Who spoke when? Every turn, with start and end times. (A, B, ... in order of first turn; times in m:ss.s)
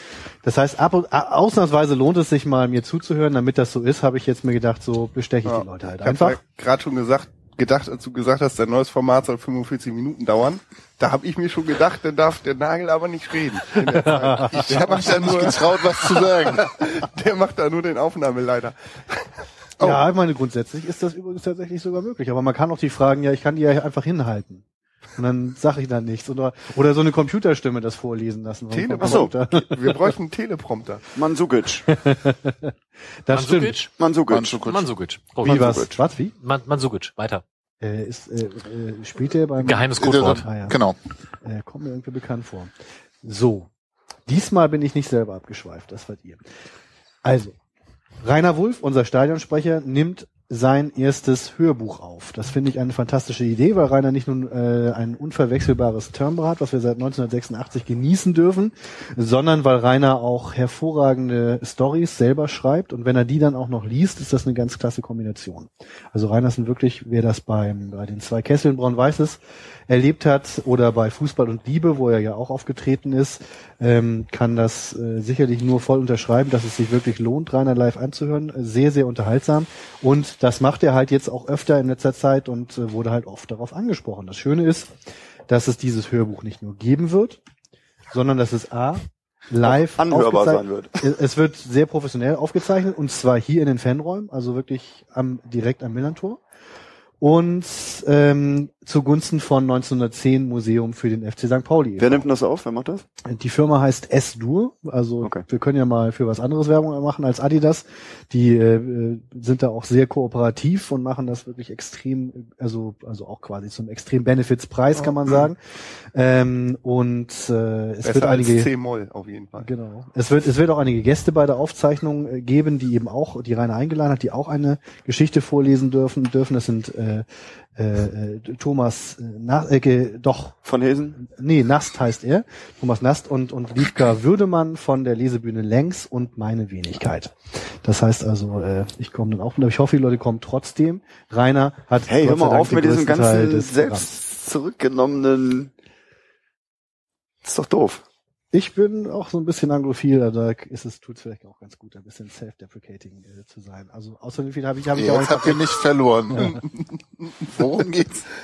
0:00.4-0:06.4 A
0:05.5-0:19.3 B
0:13.8-0:15.4 A
0:14.6-0:16.7 C
0:19.8-0:20.1 C
0:19.8-0:24.6 A
0:25.2-0:30.0 A
0:28.7-0:31.0 B
0:29.0-0:29.3 D
0:31.1-0:31.9 D
0:31.9-0:32.7 A
0:33.2-0:33.8 A
0:33.3-0:33.9 E
0:34.0-0:34.6 D
0:34.3-0:34.9 C
0:34.6-0:35.9 E
0:35.4-0:35.9 D
0:35.4-0:36.3 A
0:36.4-0:37.4 E
0:37.8-0:40.8 A
0:39.6-0:40.4 E
0:40.0-0:41.0 C
0:41.4-0:43.7 A
0:44.3-0:46.4 A
0:47.2-0:47.6 A
0:48.2-1:24.9 A
1:25.5-1:27.4 A
1:28.1-1:36.4 A
1:29.6-1:31.0 D
1:37.2-1:42.3 A
1:42.0-1:43.0 D
1:43.2-1:55.6 A
1:55.0-1:55.5 B
1:56.1-1:58.7 A
1:58.0-1:59.7 B
1:59.6-2:10.6 A
2:10.7-2:11.2 D
2:11.2-2:24.1 A
2:22.1-2:25.7 D
2:27.4-2:28.0 D
2:28.5-2:35.7 A
2:34.9-2:36.6 C
2:36.4-2:37.5 B
2:37.5-2:38.3 C